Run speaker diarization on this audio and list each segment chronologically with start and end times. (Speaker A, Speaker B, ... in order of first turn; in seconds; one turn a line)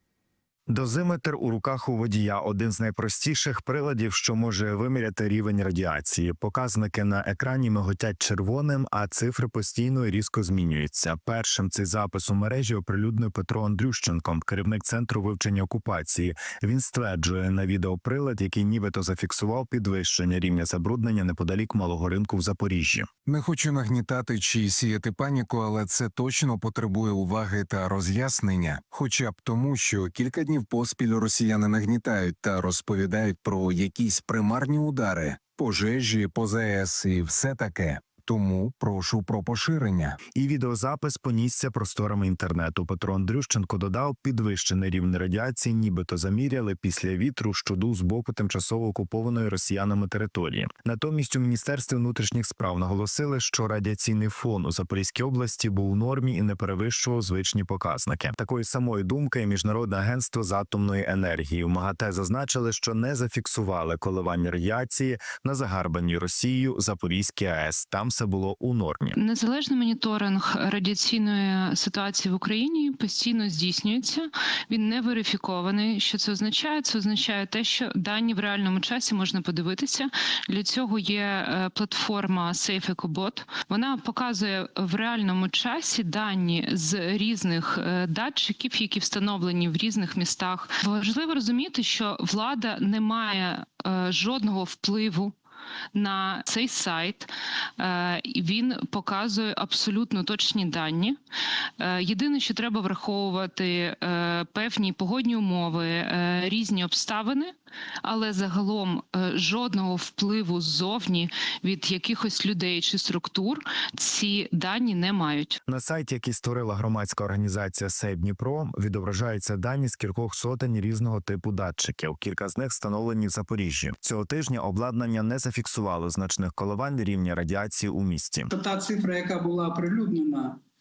Speaker A: 0.7-23.1
Speaker B: 23.3-40.2
Speaker A: 40.3-69.2
Speaker C: 69.2-95.3
Speaker C: 95.9-101.2
Speaker C: 101.8-115.6
Speaker A: 115.7-128.5
Speaker D: 128.5-130.6